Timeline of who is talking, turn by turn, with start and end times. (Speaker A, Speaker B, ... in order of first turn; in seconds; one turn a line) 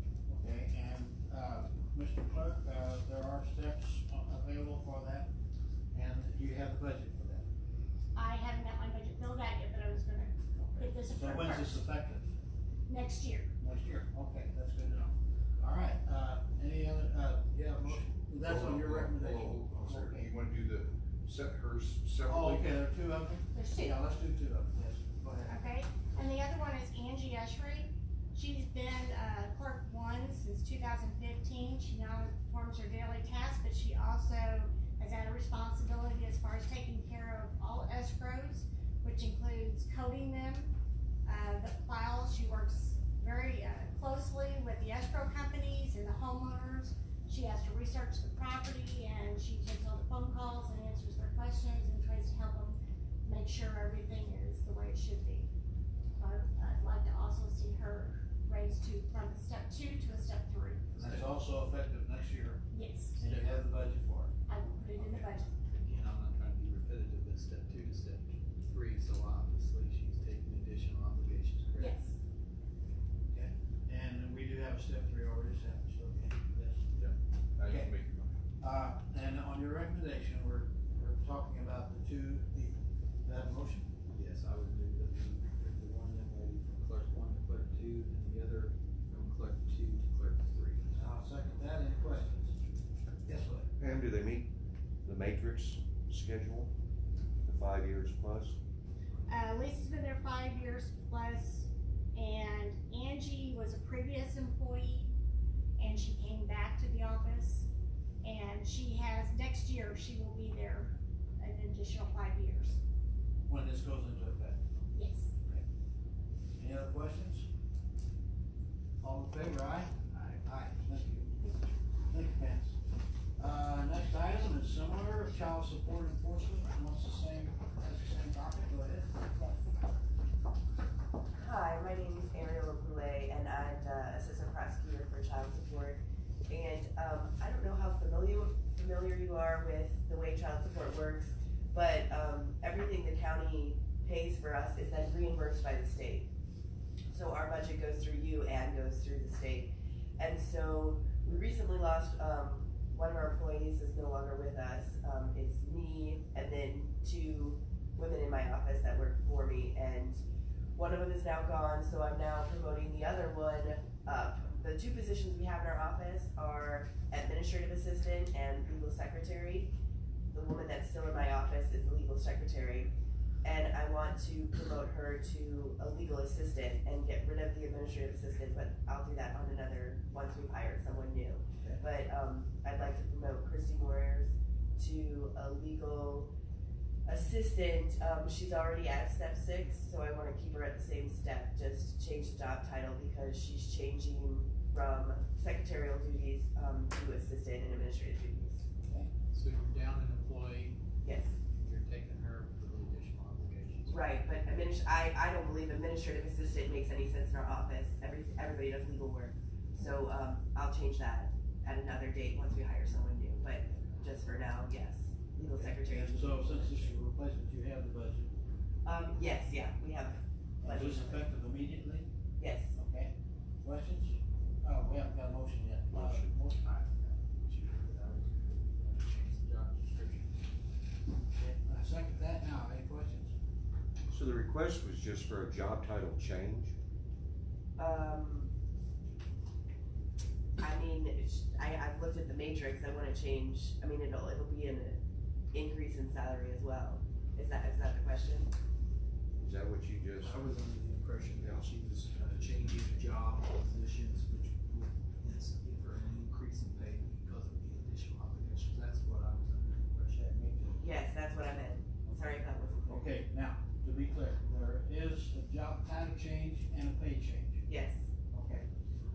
Speaker A: 0.3-5.3
Speaker A: 5.9-7.5
Speaker B: 8.2-11.8
Speaker A: 10.6-12.3
Speaker B: 12.9-13.5
Speaker A: 13.6-20.3
Speaker C: 17.9-22.8
Speaker A: 22.3-25.6
Speaker B: 23.5-23.9
Speaker B: 25.5-40.7
Speaker B: 41.3-55.5
Speaker B: 56.2-60.9
Speaker D: 61.0-61.2
Speaker A: 61.0-62.6
Speaker B: 62.7-63.2
Speaker A: 63.2-64.3
Speaker D: 63.2-63.6
Speaker B: 64.5-65.5
Speaker D: 65.6-72.0
Speaker B: 71.8-72.2
Speaker A: 73.3-76.9
Speaker C: 76.9-78.4
Speaker A: 77.6-77.9
Speaker A: 78.6-83.9
Speaker D: 84.1-91.0
Speaker A: 90.9-92.6
Speaker A: 93.2-93.7
Speaker E: 93.8-94.5
Speaker E: 95.0-96.7
Speaker E: 97.4-98.6
Speaker B: 99.3-105.1
Speaker B: 105.8-107.7
Speaker B: 108.2-112.8
Speaker A: 113.5-114.6
Speaker B: 114.9-115.3
Speaker A: 116.6-117.5
Speaker A: 119.0-121.4
Speaker A: 122.1-122.8
Speaker A: 123.4-129.1
Speaker F: 131.3-146.3
Speaker F: 147.1-160.2
Speaker F: 160.8-169.7
Speaker F: 170.3-186.3
Speaker F: 187.1-198.6
Speaker D: 199.3-200.8
Speaker F: 201.0-201.3
Speaker D: 201.5-204.0
Speaker F: 203.9-216.9
Speaker A: 215.5-218.3
Speaker F: 218.8-221.2
Speaker A: 220.6-222.1
Speaker F: 222.4-222.8
Speaker A: 222.7-226.7
Speaker E: 225.9-226.2
Speaker D: 226.6-230.5
Speaker A: 231.6-233.3
Speaker E: 234.2-236.7
Speaker F: 237.8-238.5
Speaker F: 240.6-245.0
Speaker F: 245.5-248.5
Speaker E: 249.4-250.3
Speaker D: 250.2-260.8
Speaker F: 260.8-263.1
Speaker A: 262.9-267.6
Speaker F: 267.7-268.1
Speaker A: 268.3-268.7